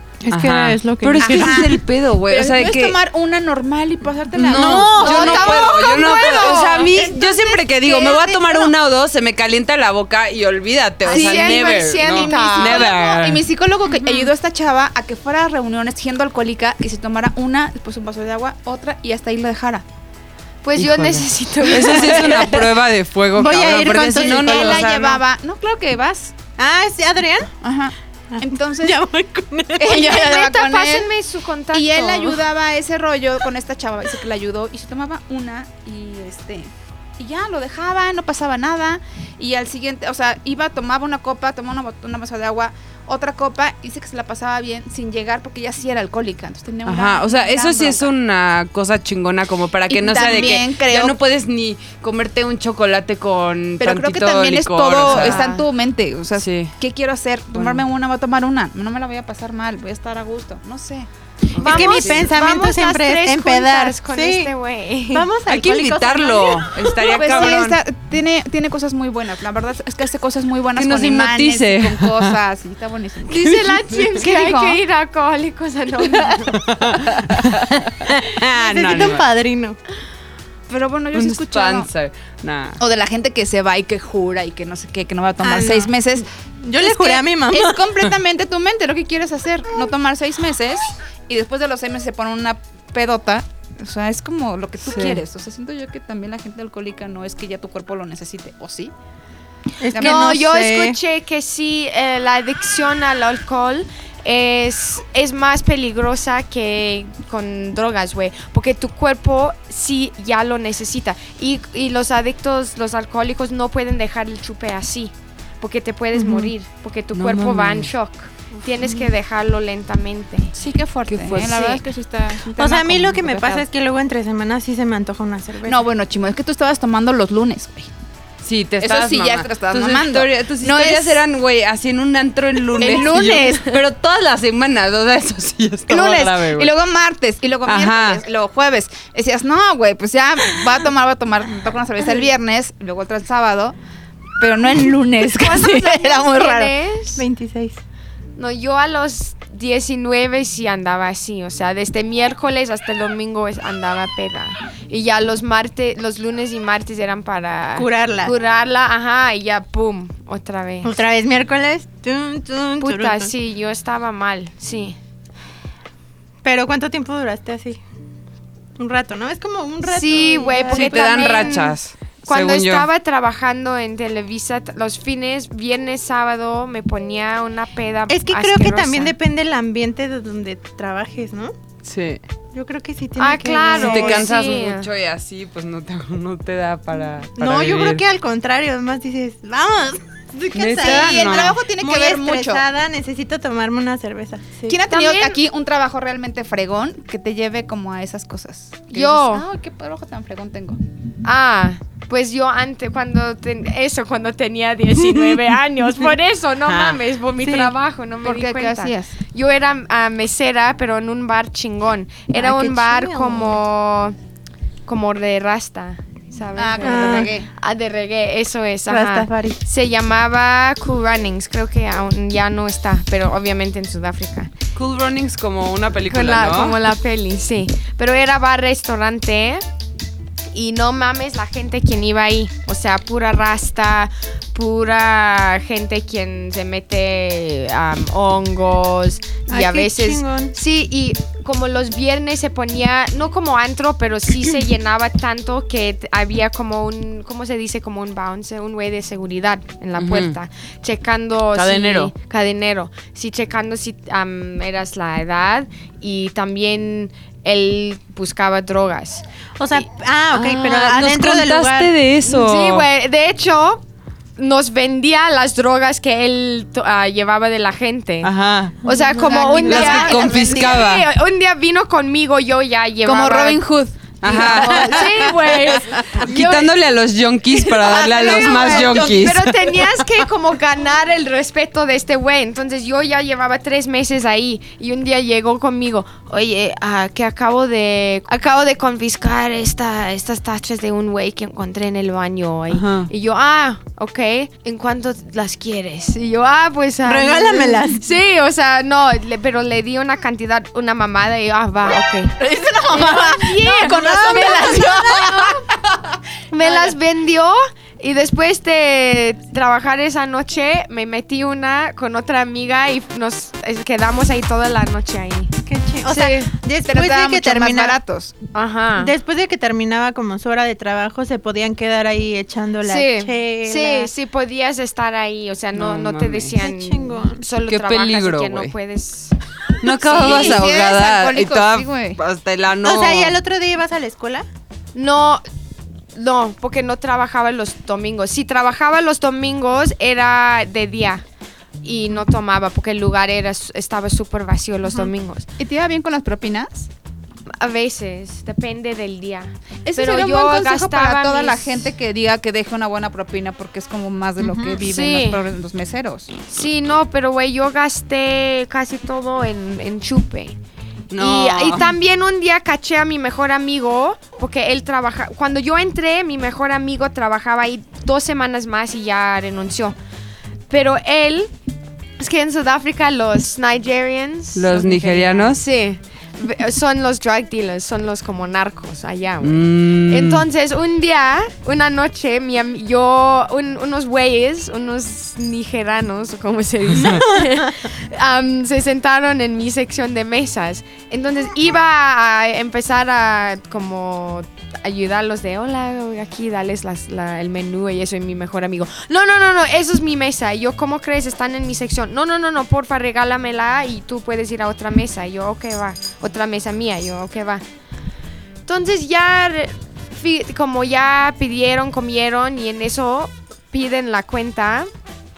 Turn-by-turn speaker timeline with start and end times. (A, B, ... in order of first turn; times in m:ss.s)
0:00.2-0:01.8 A
0:00.3-0:03.0 B
0:01.2-0:08.7 C
0:04.3-0:13.4 B
0:04.5-0:06.6 A
0:05.0-0:06.9 D
0:11.0-0:12.9 D
0:11.0-0:19.8 C
0:20.6-0:22.6 D
0:20.8-0:25.2 B
0:23.3-0:24.9 A
0:23.4-0:26.3 C
0:26.6-0:27.5 A
0:27.6-0:29.0 C
0:28.3-0:30.2 A
0:29.8-0:31.1 C
0:29.9-0:32.4 D
0:31.7-0:48.1 C
0:46.8-0:55.4 B
0:49.9-0:51.2 C
0:53.8-1:01.1 C
0:55.0-0:55.6 D
0:56.4-0:56.7 B
0:57.5-0:57.8 B
1:01.5-1:02.2 B
1:01.6-1:05.3 D
1:01.6-1:04.5 A
1:05.1-1:07.3 A
1:05.5-1:07.8 B
1:06.9-1:13.5 C
1:10.8-1:12.4 B
1:13.3-1:16.7 D
1:13.4-1:14.1 B
1:14.1-1:14.8 C
1:16.5-1:19.2 B
1:18.4-1:19.8 A
1:20.7-1:21.9 C
1:21.1-1:22.8 B
1:22.8-1:26.3 C
1:25.4-1:27.8 A
1:26.8-1:38.9 C
1:34.8-1:35.2 B
1:39.8-1:41.0 A
1:39.9-1:40.2 C
1:40.0-2:00.5 D
1:57.1-1:57.9 B
1:58.8-1:59.1 A
2:00.5-2:03.6 C
2:01.1-2:01.6 B
2:01.4-2:01.8 D
2:02.6-2:05.9 A
2:05.6-2:07.9 C
2:08.4-2:16.7 B
2:08.8-2:11.2 C
2:12.8-2:13.8 C
2:13.2-2:13.6 D
2:15.9-2:23.8 C
2:17.6-2:18.2 B
2:24.4-2:26.8 C
2:25.2-2:27.2 D
2:27.2-2:27.8 A
2:28.4-2:41.0 D
2:37.8-2:38.3 A
2:40.8-2:43.3 A
2:42.8-2:45.0 D
2:46.4-2:47.8 A
2:48.8-2:51.8 A
2:49.8-2:51.7 D
2:50.7-2:52.9 B
2:52.2-2:59.1 D
2:58.1-3:01.5 A
3:01.8-3:02.2 B
3:02.5-3:04.3 A
3:03.2-3:04.9 D
3:03.7-3:08.0 B
3:07.4-3:14.8 A
3:10.5-3:11.6 B
3:10.7-3:12.6 C
3:14.7-3:20.8 C
3:14.9-3:15.4 D
3:18.9-3:19.5 D
3:21.2-3:34.2 D
3:26.6-3:27.0 B
3:27.4-3:29.2 C
3:32.3-3:33.6 A
3:34.8-3:44.5 D
3:36.6-3:37.5 C
3:36.8-3:37.3 A
3:38.9-3:39.6 A
3:44.7-3:46.8 B
3:46.1-3:49.6 D
3:50.5-4:19.2 D
3:59.5-4:00.5 A
4:10.0-4:10.3 B
4:11.5-4:12.1 B
4:19.6-4:21.9 A
4:20.3-4:22.8 B
4:22.2-4:23.8 D
4:24.4-4:28.3 D
4:28.2-4:28.8 B
4:28.8-4:33.6 D
4:28.9-4:30.8 C
4:29.6-4:31.1 B
4:33.0-4:35.8 C
4:34.2-4:35.1 B
4:34.3-4:36.7 D
4:36.2-4:40.1 B
4:37.7-4:39.3 C
4:37.8-5:02.3 D
4:52.7-4:53.1 B
4:57.0-4:58.0 A
5:02.4-5:07.0 C
5:02.9-5:05.6 D
5:03.9-5:04.4 A
5:06.5-5:15.5 D
5:15.6-5:18.0 A
5:16.0-5:16.5 D
5:16.8-5:18.3 C
5:18.5-5:19.1 D
5:19.0-5:24.1 A
5:22.8-5:29.4 D
5:25.7-5:26.6 B
5:26.6-5:27.4 A
5:27.7-5:28.7 B
5:29.8-5:33.4 B
5:29.9-5:30.7 D
5:30.1-5:32.2 C
5:32.8-5:34.4 A
5:34.9-5:35.4 D
5:36.1-5:41.2 D
5:41.8-5:45.5 D
5:45.6-5:46.9 C
5:47.5-5:51.8 D
5:49.8-5:56.3 C
5:54.6-5:55.4 D
5:56.5-6:00.6 D
6:01.1-6:01.9 B
6:01.2-6:10.0 D
6:10.7-6:11.5 D
6:12.2-6:47.6 D
6:14.5-6:15.6 B
6:19.4-6:20.4 B
6:26.9-6:27.2 B
6:27.0-6:27.7 A
6:48.6-6:54.9 D